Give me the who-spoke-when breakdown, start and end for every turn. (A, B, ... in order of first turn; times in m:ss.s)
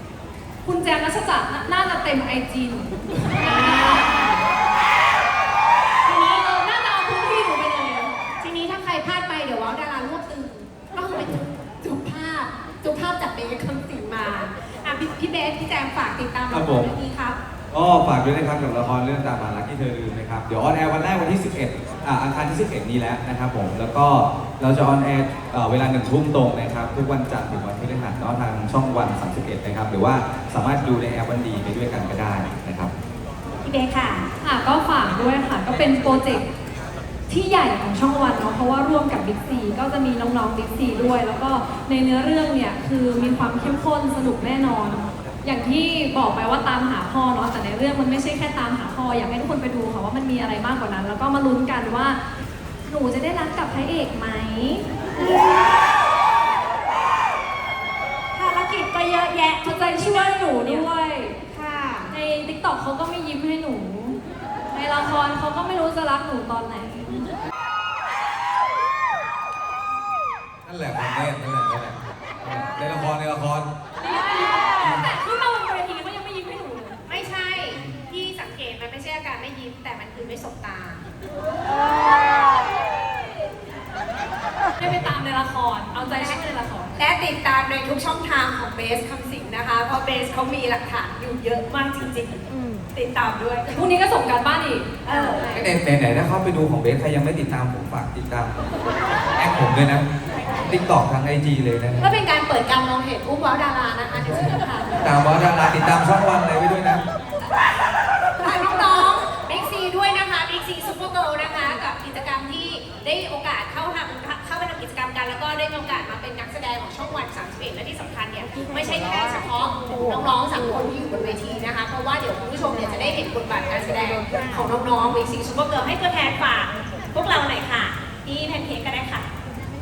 0:00.6-0:04.1 A
0:03.4-0:04.4 B
0:06.0-0:17.4 B
0:16.5-0:16.9 C
0:17.7-0:32.9 C
0:33.6-0:34.3 B
0:34.4-0:36.4 A
0:37.3-0:52.2 A
0:52.8-0:55.0 A
0:55.1-0:55.7 B
0:58.3-1:00.9 B
0:59.6-1:01.4 A
1:01.5-1:02.1 B
1:02.1-1:04.2 A
1:04.7-1:07.3 A
1:10.6-1:13.7 C
1:14.0-1:17.0 A
1:14.8-1:15.1 C
1:17.1-1:21.0 B
1:24.8-1:27.0 A
1:24.8-1:25.1 C
1:26.0-1:33.9 B
1:33.7-1:34.9 A
1:35.0-1:35.6 B
1:35.5-1:38.5 C
1:39.3-1:40.0 C
1:40.6-1:42.1 C
1:42.0-1:44.9 B
1:44.2-1:47.0 C
1:48.4-2:09.3 B